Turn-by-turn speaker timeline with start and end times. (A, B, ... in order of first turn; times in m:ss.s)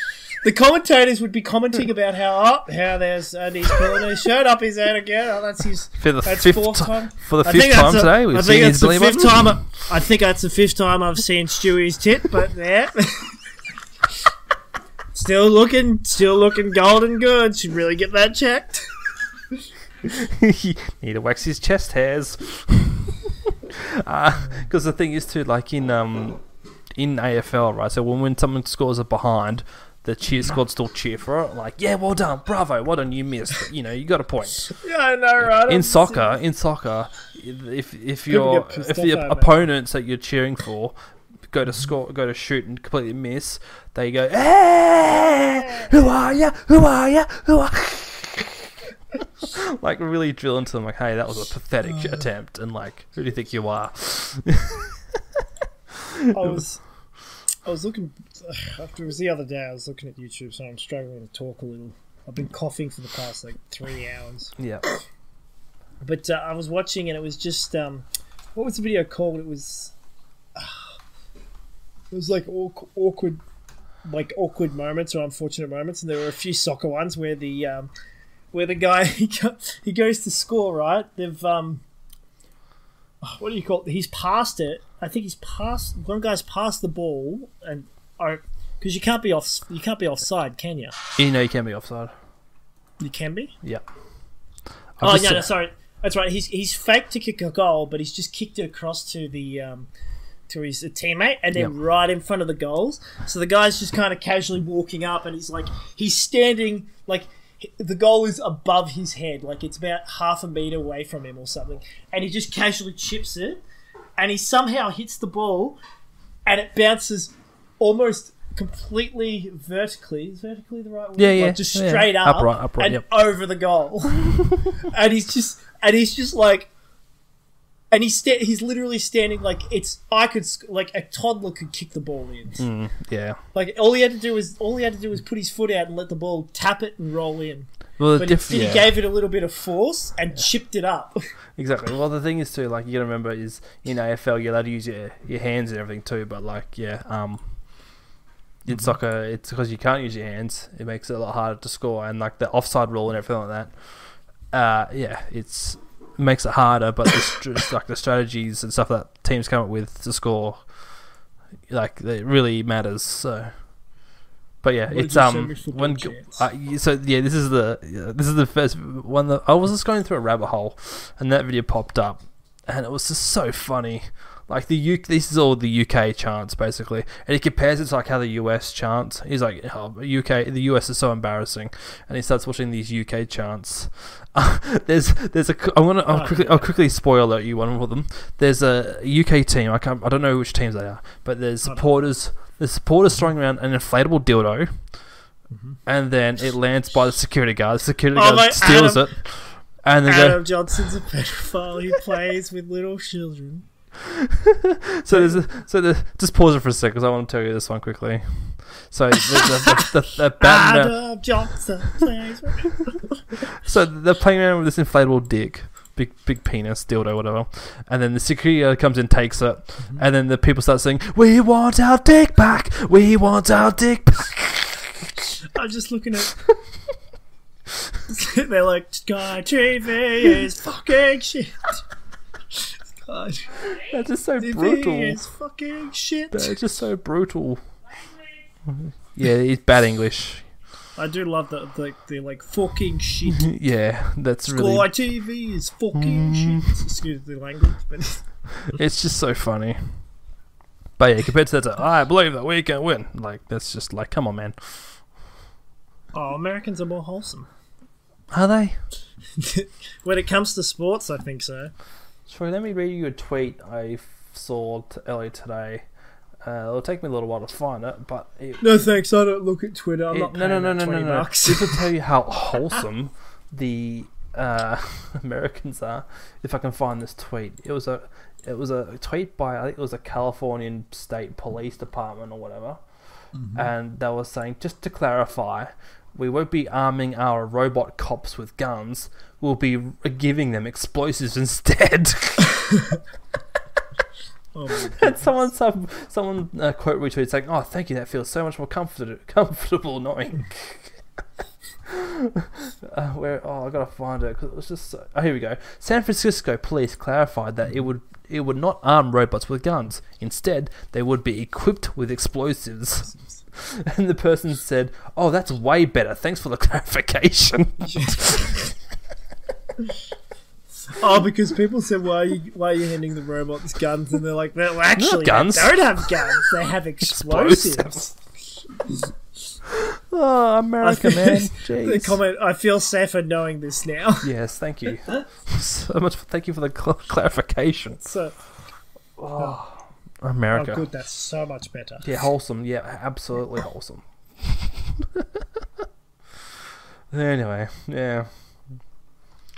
0:00.4-0:13.4 A
0:06.0-0:09.6 B
0:15.1-0:18.9 A
0:20.0-0:26.4 B
0:27.0-0:34.7 B
0:34.7-0:36.3 A
0:35.4-0:41.0 B
0:38.3-0:39.6 A
0:41.5-0:48.7 B
0:45.7-0:46.0 A
0:49.2-0:55.0 B
0:55.9-0:56.6 B
0:56.3-0:56.8 A
0:57.6-1:04.6 A
1:04.6-1:04.9 B
1:06.0-1:09.9 A
1:10.6-1:11.0 A
1:12.1-1:13.4 A
1:14.0-1:17.9 A
1:18.5-1:21.8 A
1:23.2-1:31.0 A
1:31.2-1:32.1 B
1:33.0-1:33.6 A
1:35.0-1:35.5 B
1:35.0-1:39.9 A
1:40.5-1:53.6 A
1:54.2-1:55.8 A
1:56.5-2:06.7 A
2:01.2-2:03.0 B
2:07.9-2:12.6 A
2:12.6-2:13.4 B
2:13.5-2:21.2 A
2:18.0-2:19.0 B
2:21.6-2:27.4 B
2:28.6-2:33.7 B
2:34.5-2:40.6 B
2:41.7-2:43.5 B
2:44.6-3:14.7 B
2:44.9-2:46.4 A
3:06.1-3:06.7 A
3:11.6-3:11.9 A
3:15.5-3:15.8 A
3:15.9-3:20.9 B
3:18.1-3:19.1 A
3:20.1-3:23.7 A
3:24.0-3:31.0 B
3:25.1-3:25.4 A
3:29.3-3:33.2 A
3:33.5-3:45.1 B
3:45.5-3:46.4 A
3:48.1-3:51.8 A
3:52.6-3:53.8 A
3:53.8-3:55.2 B
3:54.4-3:56.6 A
3:56.3-3:57.6 B
3:58.7-4:00.4 B
4:01.0-4:03.5 A
4:03.3-4:04.9 B
4:04.4-4:08.2 A
4:06.0-4:06.8 B
4:08.6-4:09.8 B
4:11.0-4:14.6 B
4:16.1-4:17.5 A
4:18.3-4:18.8 B
4:19.4-4:21.7 A
4:22.3-4:25.8 B
4:26.4-4:28.6 B
4:28.6-4:31.9 A
4:30.1-4:42.8 B
4:43.3-4:43.7 A
4:43.5-4:52.6 B
4:52.6-4:53.0 A
4:54.5-4:55.4 A
4:54.9-5:01.0 B
5:01.8-5:18.6 B
5:17.8-5:18.6 A
5:20.9-5:28.2 A
5:25.0-5:26.2 B
5:27.0-5:28.0 B
5:29.7-5:32.2 B
5:30.8-5:34.3 A
5:34.2-5:38.0 B
5:38.0-5:38.4 A
5:39.2-5:40.8 B
5:40.5-5:42.1 A
5:42.0-5:45.8 B
5:47.1-5:48.3 B